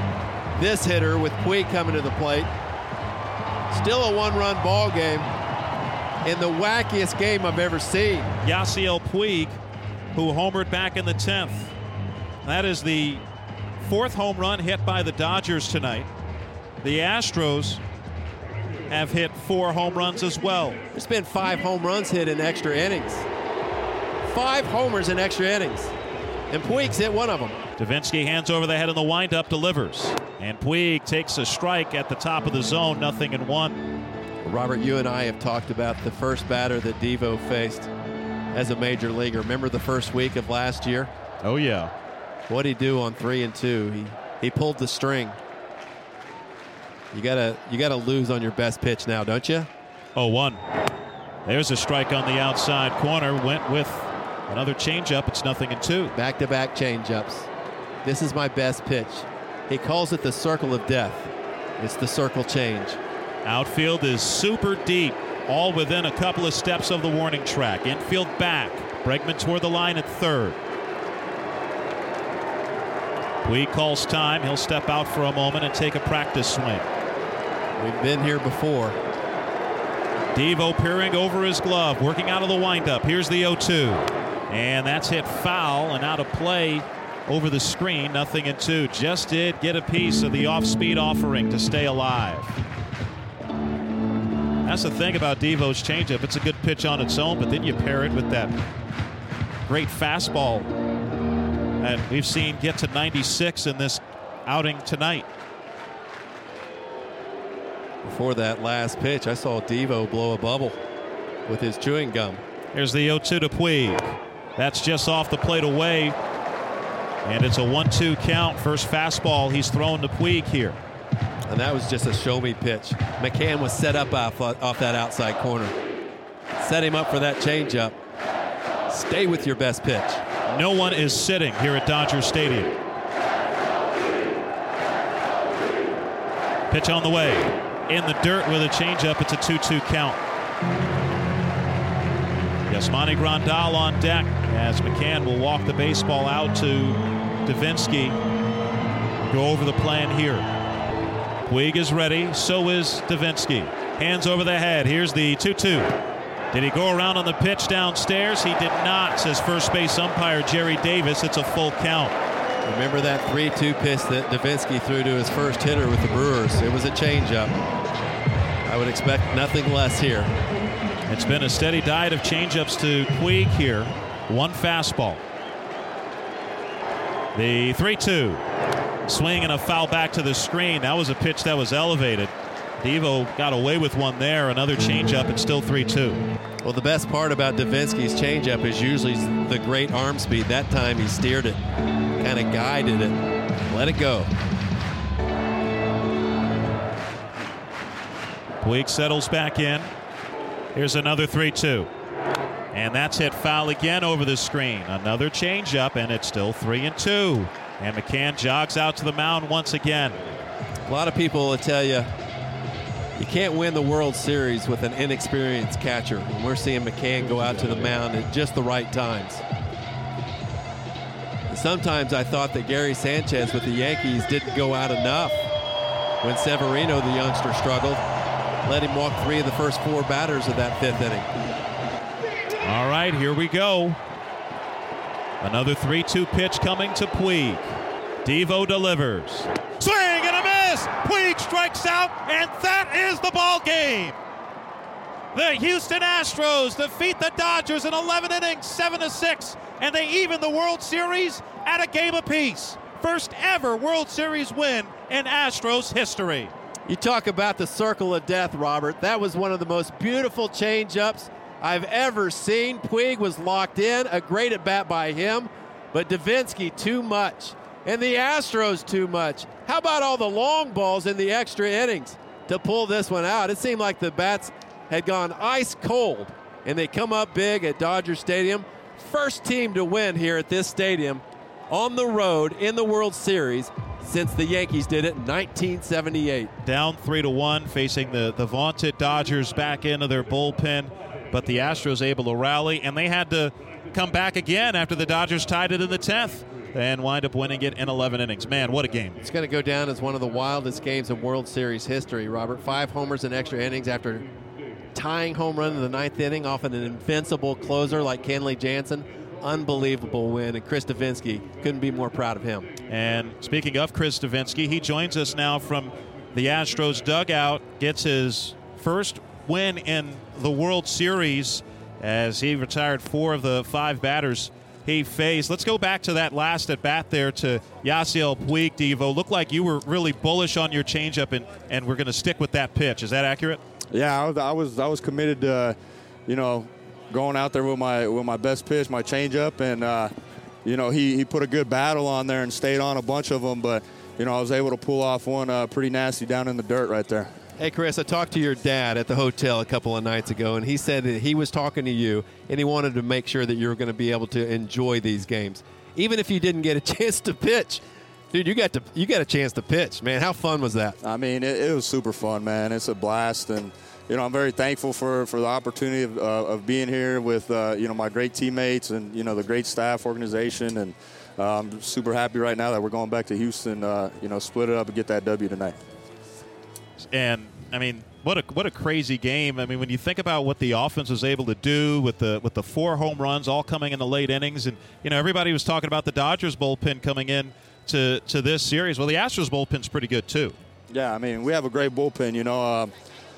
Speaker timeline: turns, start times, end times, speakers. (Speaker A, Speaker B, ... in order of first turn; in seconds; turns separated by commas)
Speaker A: 0.5-2.5, Speaker A: 3.7-5.3, Speaker A: 6.2-8.3, Speaker B: 8.4-9.6, Speaker B: 10.1-11.7, Speaker B: 12.4-13.2, Speaker B: 13.8-16.1, Speaker B: 16.8-17.8, Speaker B: 18.9-20.8, Speaker A: 20.9-23.2, Speaker A: 24.2-25.9, Speaker A: 26.5-27.6, Speaker B: 27.8-33.8, Speaker A: 34.4-37.9, Speaker A: 38.5-41.1, Speaker B: 41.4-41.9, Speaker A: 42.5-45.4, Speaker A: 47.1-49.7, Speaker B: 50.1-50.6, Speaker B: 51.5-56.1, Speaker A: 56.1-57.5, Speaker A: 58.0-63.0, Speaker B: 63.4-70.6, Speaker B: 73.4-76.9, Speaker A: 77.8-79.0, Speaker B: 80.3-92.5, Speaker B: 94.6-98.5, Speaker B: 99.7-100.7, Speaker B: 101.8-105.3, Speaker A: 108.0-110.8, Speaker A: 111.5-112.4, Speaker B: 112.7-116.2, Speaker B: 117.2-120.8, Speaker A: 121.5-125.8, Speaker A: 126.6-128.0, Speaker A: 128.9-130.2, Speaker B: 130.5-132.8, Speaker B: 136.7-140.2, Speaker B: 142.7-148.2, Speaker B: 149.2-150.5, Speaker B: 151.5-155.9, Speaker B: 156.5-162.1, Speaker A: 162.6-167.5, Speaker A: 168.7-170.3, Speaker B: 171.1-175.2, Speaker B: 177.3-178.4, Speaker B: 179.1-186.2, Speaker A: 186.6-191.6, Speaker A: 192.2-194.3, Speaker B: 198.6-199.9, Speaker B: 200.7-201.9, Speaker B: 202.7-210.2, Speaker A: 210.9-212.1, Speaker A: 213.2-219.4, Speaker A: 221.5-225.5, Speaker A: 226.2-228.0, Speaker A: 228.6-231.3, Speaker B: 232.6-234.0, Speaker B: 235.4-244.2, Speaker B: 245.3-256.5, Speaker A: 256.9-286.5, Speaker B: 286.6-299.2, Speaker A: 299.2-304.3, Speaker A: 304.9-312.7, Speaker B: 312.9-333.6, Speaker C: 333.9-335.8, Speaker C: 336.3-340.1, Speaker C: 340.6-347.3, Speaker A: 347.6-361.0, Speaker C: 361.0-375.8, Speaker B: 377.0-390.6, Speaker C: 390.9-392.9